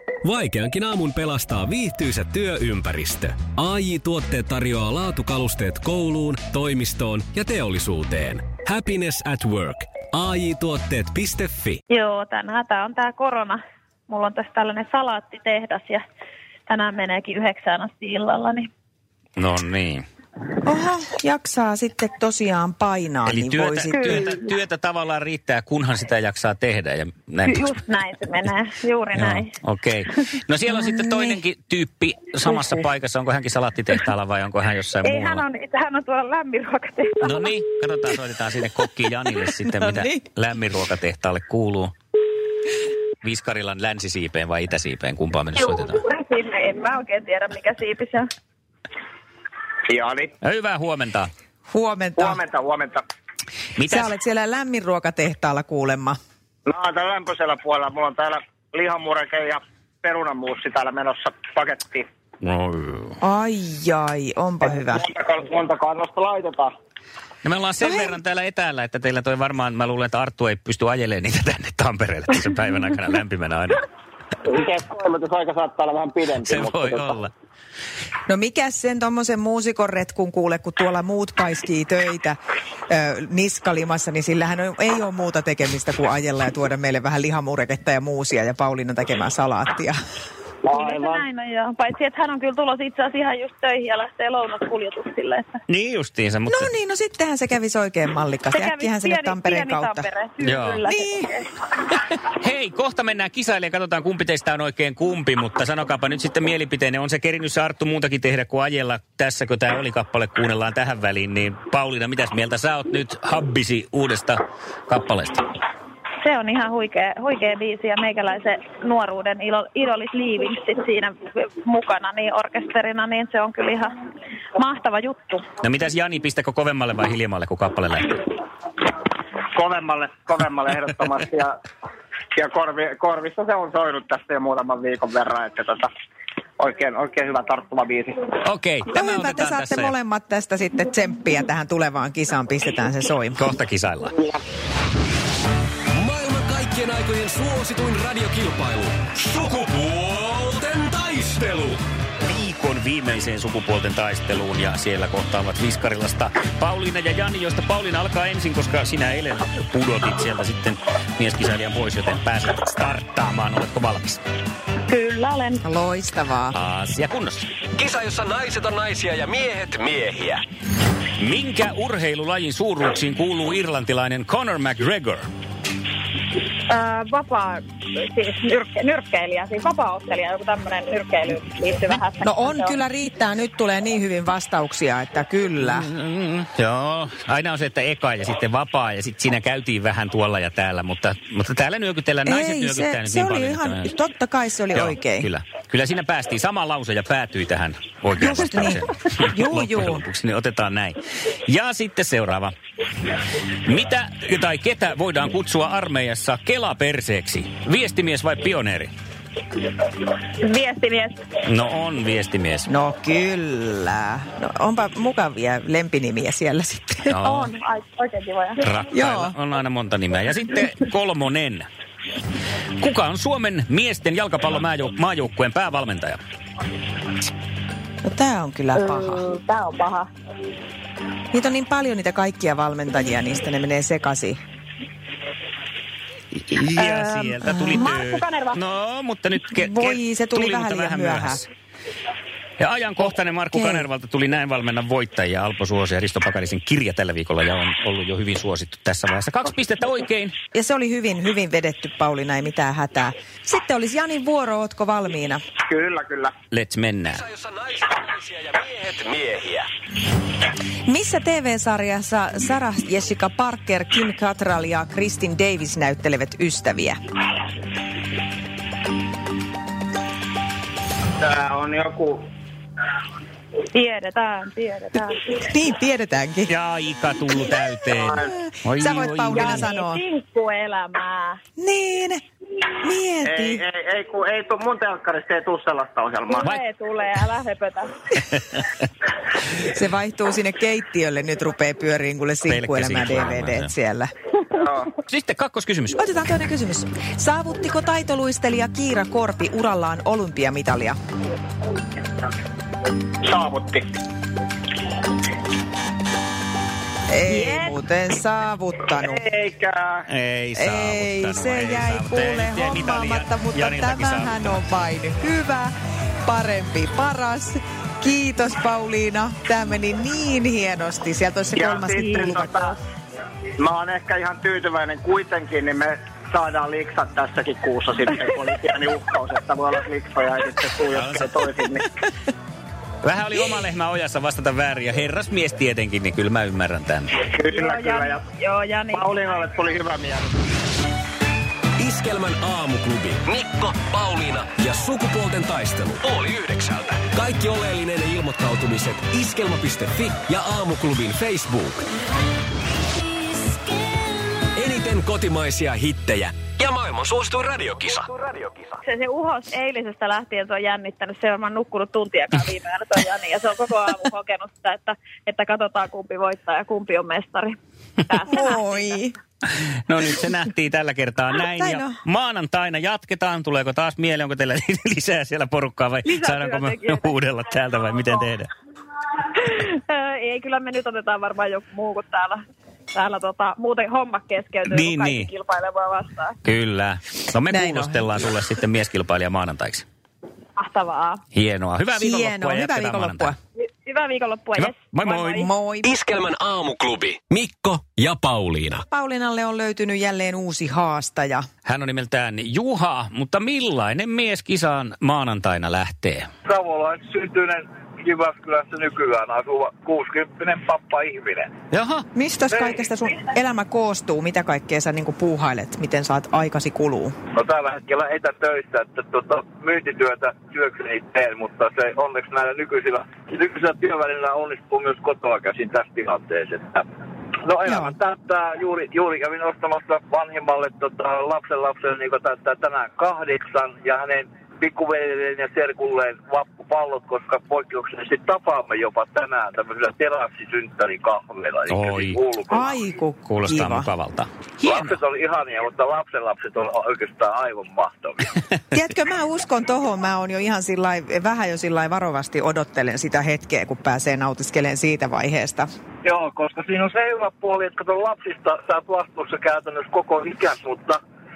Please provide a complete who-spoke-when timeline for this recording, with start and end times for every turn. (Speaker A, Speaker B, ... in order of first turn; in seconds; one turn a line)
Speaker A: 0.2-11.8
Speaker B: 11.9-16.0
Speaker B: 16.7-18.7
Speaker C: 19.4-20.0
Speaker D: 20.6-24.2
Speaker C: 23.2-27.8
Speaker B: 24.0-24.4
Speaker B: 27.4-29.5
Speaker C: 29.1-35.4
Speaker D: 30.6-31.4
Speaker D: 32.5-32.8
Speaker B: 35.0-37.5
Speaker C: 37.2-41.9
Speaker D: 39.7-40.2
Speaker C: 43.2-46.0
Speaker B: 45.7-48.3
Speaker E: 49.9-50.3
Speaker C: 50.4-51.3
Speaker D: 51.7-52.4
Speaker E: 52.2-53.0
Speaker C: 53.8-54.1
Speaker D: 53.8-56.2
Speaker E: 56.7-62.1
Speaker C: 62.4-63.2
Speaker D: 63.2-65.0
Speaker E: 64.9-66.7
Speaker C: 67.4-73.8
Speaker E: 74.5-77.0
Speaker C: 76.4-77.3
Speaker D: 78.3-82.3
Speaker D: 82.9-90.0
Speaker E: 90.7-91.2
Speaker B: 90.7-95.6
Speaker C: 95.7-96.7
Speaker D: 96.5-100.1
Speaker B: 98.5-101.5
Speaker C: 100.4-100.8
Speaker D: 100.8-101.3
Speaker C: 102.2-115.4
Speaker B: 116.2-123.9
Speaker B: 124.5-125.4
Speaker C: 125.6-128.2
Speaker E: 129.5-131.5
Speaker E: 132.4-135.9
Speaker E: 136.6-138.2
Speaker C: 138.4-139.9
Speaker D: 138.9-143.5
Speaker C: 143.3-144.1
Speaker A: 145.9-151.8
Speaker C: 152.2-164.2
Speaker B: 164.9-165.6
Speaker D: 165.6-166.6
Speaker C: 166.5-167.5
Speaker A: 167.7-170.4
Speaker C: 171.2-175.2
Speaker B: 176.7-182.8
Speaker D: 182.2-185.9
Speaker C: 185.6-193.9
Speaker D: 192.2-195.3
Speaker C: 194.7-202.5
Speaker D: 198.2-200.0
Speaker C: 203.7-208.9
Speaker B: 210.4-211.2
Speaker C: 211.4-212.7
Speaker D: 212.7-217.1
Speaker C: 217.1-217.5
Speaker B: 217.2-218.6
Speaker C: 218.6-221.7
Speaker D: 218.9-219.3
Speaker C: 222.8-226.2
Speaker D: 228.0-229.2
Speaker B: 228.8-230.1
Speaker D: 231.3-234.4
Speaker C: 236.4-241.5
Speaker B: 236.8-238.6
Speaker D: 239.5-241.4
Speaker C: 242.6-250.3
Speaker D: 243.5-243.9
Speaker D: 250.5-255.4
Speaker E: 255.7-256.3
Speaker C: 256.5-257.2
Speaker A: 257.1-259.7
Speaker D: 260.9-267.0
Speaker E: 271.2-272.2
Speaker B: 273.7-275.3
Speaker D: 275.4-276.5
Speaker C: 276.5-279.7
Speaker D: 278.4-280.0
Speaker B: 279.3-281.4
Speaker D: 281.6-282.2
Speaker D: 282.8-283.6
Speaker E: 283.2-286.4
Speaker B: 286.3-287.9
Speaker D: 289.6-294.1
Speaker C: 292.5-293.7
Speaker E: 294.6-294.8
Speaker C: 295.0-296.0
Speaker D: 296.0-300.9
Speaker E: 303.3-303.8
Speaker D: 307.1-309.2
Speaker B: 307.3-307.8
Speaker E: 309.0-310.0
Speaker C: 310.1-314.7
Speaker D: 310.6-315.7
Speaker D: 316.2-322.7
Speaker E: 321.6-322.7
Speaker B: 322.1-322.4
Speaker E: 323.6-331.8
Speaker C: 330.9-331.3
Speaker C: 333.0-337.1
Speaker E: 337.3-338.2
Speaker B: 337.4-339.3
Speaker E: 338.9-340.3
Speaker A: 341.8-351.8
Speaker A: 354.6-358.8
Speaker B: 358.8-369.0
Speaker D: 368.3-369.1
Speaker C: 369.5-378.5
Speaker D: 371.5-372.0
Speaker B: 376.1-377.1
Speaker B: 379.3-382.4
Speaker B: 382.9-386.4
Speaker C: 384.6-385.3
Speaker C: 386.4-389.9
Speaker D: 387.5-388.3
Speaker B: 390.6-391.2
Speaker C: 391.3-393.3
Speaker D: 391.9-393.4
Speaker B: 393.6-395.5
Speaker C: 394.6-395.5
Speaker D: 395.3-396.0
Speaker A: 395.8-398.8
Speaker D: 398.9-401.4
Speaker C: 401.6-406.3
Speaker F: 406.4-411.5
Speaker C: 411.7-412.1
Speaker D: 412.1-417.1
Speaker F: 412.6-412.8
Speaker F: 417.3-426.8
Speaker F: 427.4-442.8
Speaker D: 427.6-427.9
Speaker C: 441.7-442.2
Speaker D: 442.5-443.9
Speaker C: 443.2-445.0
Speaker F: 444.6-448.2
Speaker D: 448.7-455.7
Speaker F: 456.0-461.0